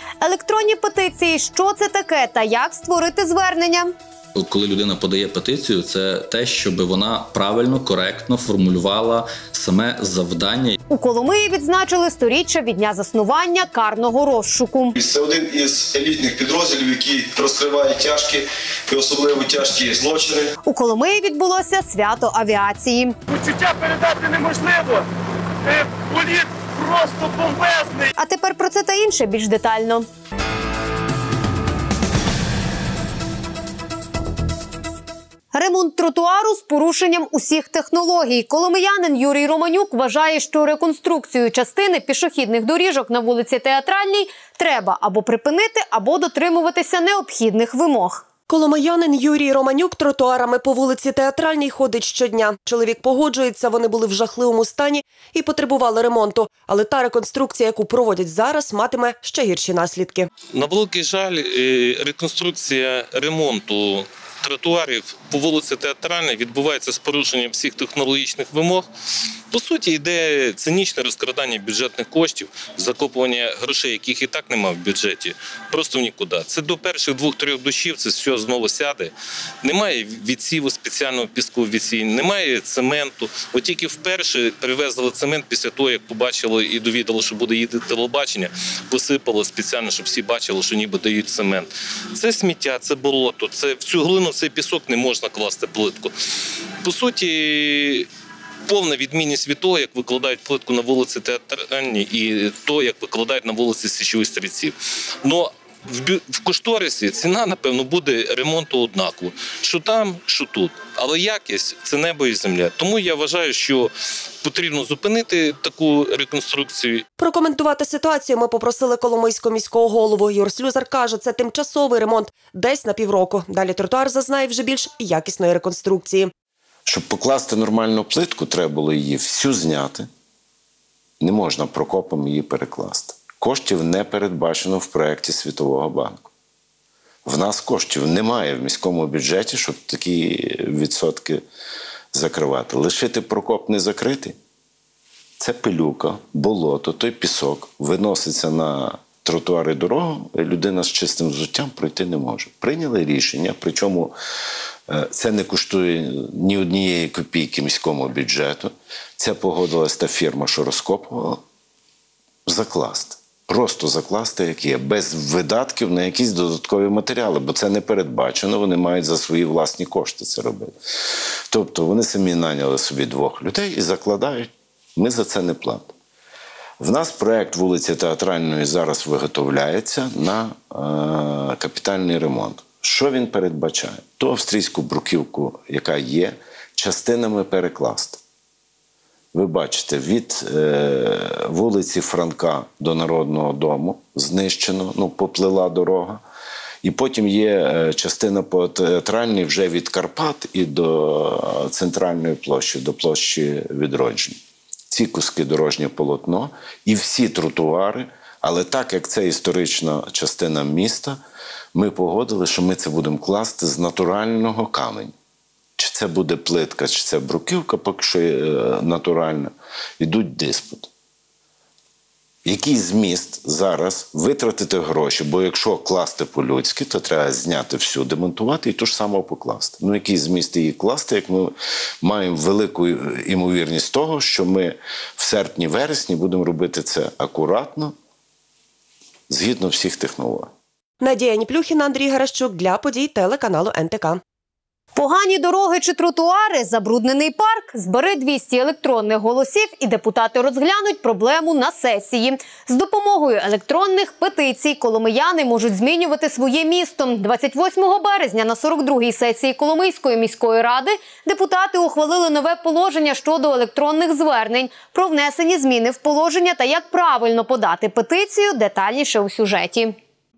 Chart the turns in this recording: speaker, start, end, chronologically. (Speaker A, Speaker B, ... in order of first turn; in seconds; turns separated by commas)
Speaker A: 0.2-3.9, Speaker B: 4.3-10.8, Speaker A: 10.9-14.9, Speaker C: 14.9-20.5, Speaker A: 20.6-23.1, Speaker D: 23.3-25.1, Speaker D: 25.6-28.1, Speaker A: 28.2-30.1, Speaker A: 35.5-48.2, Speaker E: 48.5-60.3, Speaker F: 60.5-68.9, Speaker F: 69.5-96.1, Speaker F: 96.8-98.1, Speaker F: 98.7-117.0, Speaker E: 117.2-126.3, Speaker G: 126.8-130.1, Speaker G: 131.2-136.3, Speaker G: 137.2-141.4, Speaker G: 142.1-144.3, Speaker G: 145.4-154.1, Speaker G: 154.9-161.4, Speaker G: 162.4-170.8, Speaker G: 171.5-175.9, Speaker G: 176.8-188.2, Speaker G: 189.3-196.2, Speaker G: 196.8-204.4, Speaker G: 204.9-211.2, Speaker G: 211.7-215.1, Speaker G: 215.8-220.9, Speaker G: 222.4-237.9, Speaker G: 239.3-240.5, Speaker E: 241.0-244.2, Speaker A: 244.9-269.9